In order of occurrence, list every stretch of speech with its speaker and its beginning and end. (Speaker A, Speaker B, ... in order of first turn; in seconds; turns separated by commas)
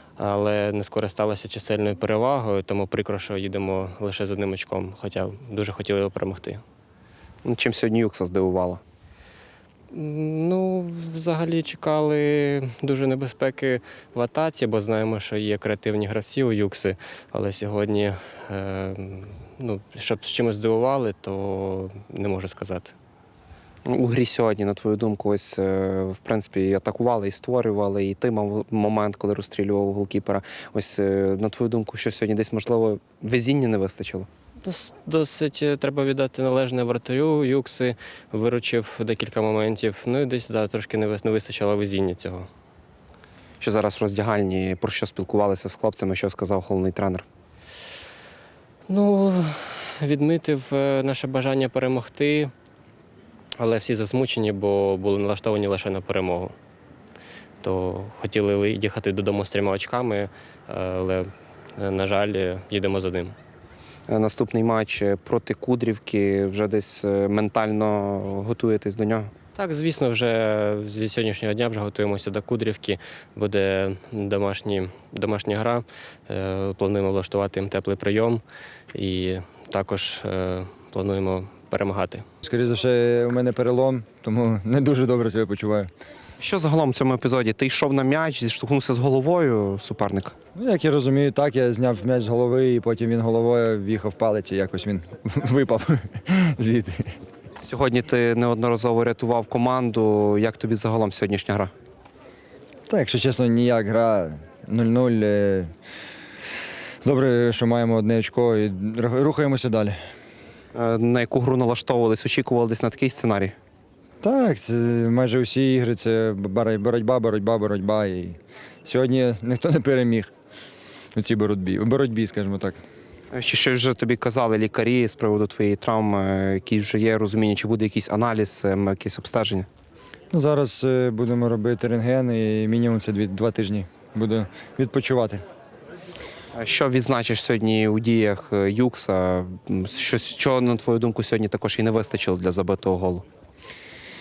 Speaker A: 0.2-6.6, Speaker B: 7.5-8.8, Speaker A: 9.9-22.9, Speaker B: 23.9-34.3, Speaker A: 34.6-42.5, Speaker B: 43.6-47.2, Speaker A: 48.9-52.5, Speaker A: 53.6-56.5, Speaker A: 57.6-63.4, Speaker B: 64.1-69.3, Speaker A: 69.5-78.4, Speaker A: 78.9-82.2, Speaker C: 82.4-85.9, Speaker B: 86.4-90.3, Speaker C: 90.5-97.1, Speaker B: 97.6-101.7, Speaker C: 102.9-105.7, Speaker C: 107.0-110.0, Speaker B: 110.7-113.5, Speaker C: 114.2-120.3, Speaker C: 121.2-122.8, Speaker B: 123.3-129.7, Speaker C: 130.3-135.4, Speaker B: 136.6-143.2